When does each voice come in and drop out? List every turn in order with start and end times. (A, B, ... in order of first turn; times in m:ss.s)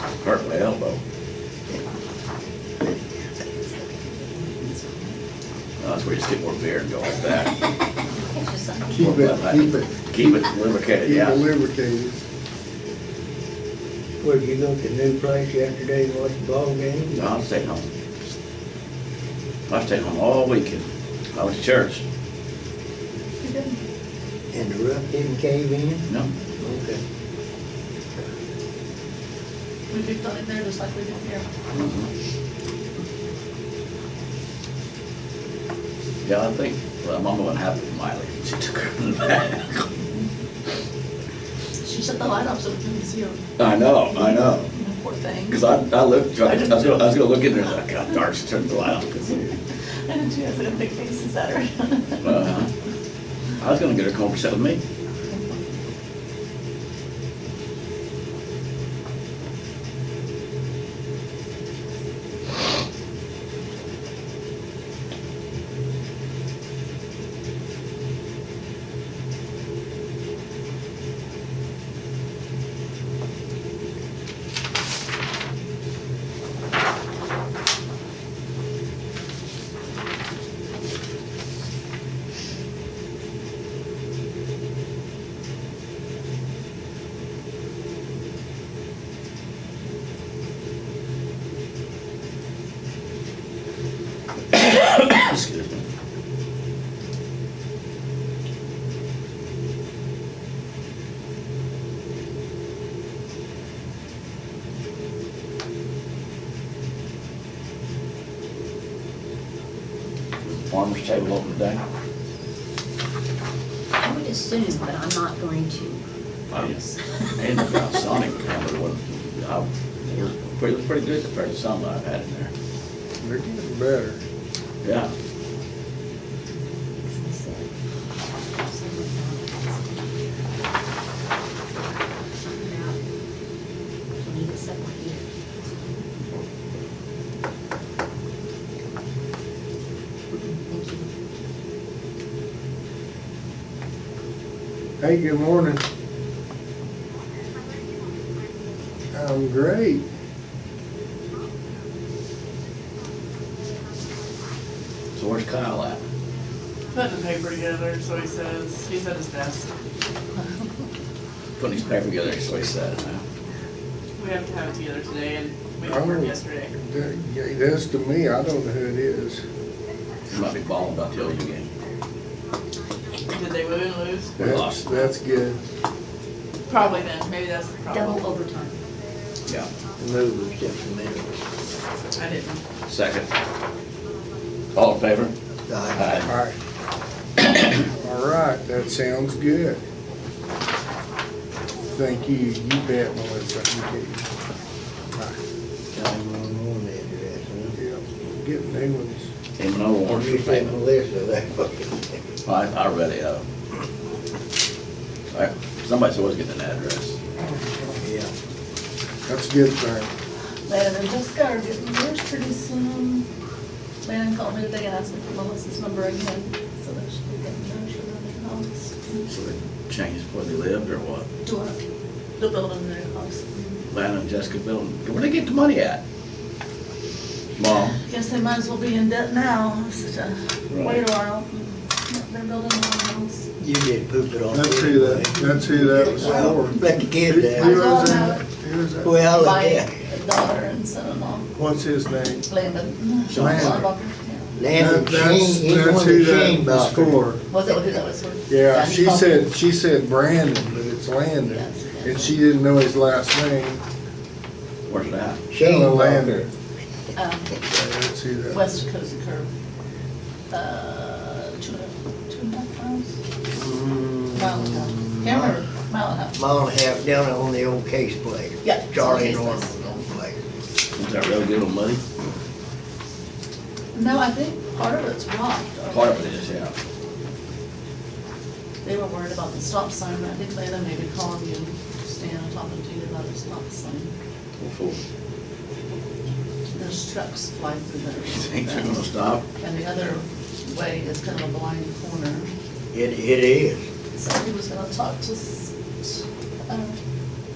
0:00.2-0:01.0 A
0:03.9-0:05.2 B
0:05.8-0:07.7 A
0:08.1-0:09.3 B
0:08.9-0:10.0 C
0:09.0-0:11.5 A
0:11.0-0:12.2 C
0:14.2-0:17.2 D
0:17.1-0:17.9 A
0:19.7-0:22.0 A
0:23.4-0:23.8 E
0:24.5-0:26.1 D
0:26.6-0:27.0 D
0:29.9-0:31.4 E
0:31.7-0:32.1 A
0:36.2-0:39.9 A
0:41.8-0:43.4 E
0:43.6-0:44.7 A
0:44.1-0:45.8 E
0:45.5-0:49.5 A
0:46.3-0:47.2 E
0:50.1-0:52.4 E
0:52.2-0:52.7 A
0:53.6-0:54.8 A
1:34.5-1:35.8 A
1:50.4-1:51.8 A
1:54.0-1:57.1 B
1:56.5-1:56.8 A
1:57.4-2:02.5 A
2:03.2-2:04.2 C
2:04.8-2:05.1 A
2:07.0-2:07.7 B
2:08.5-2:10.4 B
2:12.4-2:13.0 B
2:14.2-2:15.2 B
2:20.3-2:21.1 B
2:25.0-2:25.8 C
2:29.1-2:30.0 C
2:35.1-2:36.0 A
2:36.9-2:39.7 F
2:41.6-2:43.2 A
2:44.2-2:46.7 F
2:45.8-2:49.4 C
2:50.3-2:51.7 A
2:53.3-2:54.4 F
2:54.4-2:55.6 C
2:54.4-2:54.8 A
2:56.7-2:58.3 F
2:57.9-2:58.7 B
3:00.0-3:01.3 D
3:02.2-3:02.6 F
3:02.8-3:03.3 A
3:04.7-3:05.3 A
3:05.7-3:06.3 D
3:05.9-3:06.3 A
3:06.2-3:06.6 C
3:08.0-3:09.8 C
3:11.9-3:14.2 C
3:15.9-3:17.8 D
3:17.7-3:19.3 C
3:19.6-3:20.8 A
3:20.1-3:22.2 D
3:22.4-3:23.4 A
3:25.3-3:27.2 A
3:27.4-3:28.0 C
3:28.0-3:28.3 D
3:29.3-3:30.1 C
3:30.7-3:33.2 E
3:34.0-3:39.2 E
3:39.2-3:41.3 A
3:41.4-3:41.8 E
3:42.4-3:43.8 E
3:43.9-3:46.0 A
3:47.6-3:48.0 A
3:47.9-3:53.4 E
3:50.7-3:51.0 A
3:53.6-3:58.0 D
3:54.5-3:59.2 C
3:55.7-3:56.8 E
3:57.5-3:58.4 E
3:59.0-3:59.9 D
3:59.3-4:01.5 E
4:01.6-4:02.4 C
4:02.4-4:04.6 E
4:03.3-4:03.8 A
4:03.3-4:03.8 C
4:04.6-4:07.2 D
4:04.7-4:07.4 C
4:07.5-4:09.5 E
4:08.5-4:13.8 C
4:11.4-4:12.4 E
4:14.9-4:15.4 A
4:15.5-4:16.5 D
4:15.6-4:16.5 C
4:17.2-4:17.7 E
4:17.7-4:18.6 C
4:18.5-4:19.5 E
4:20.5-4:23.2 E
4:23.5-4:25.6 D
4:24.3-4:26.4 E
4:26.3-4:30.4 D
4:28.6-4:30.0 E
4:31.0-4:32.0 A
4:33.9-4:36.4 E
4:35.9-4:36.7 A
4:38.8-4:44.1 E
4:44.6-4:45.0 A
4:46.7-4:52.5 E
4:48.3-4:49.4 A
4:52.9-4:53.8 D
4:54.1-4:57.0 E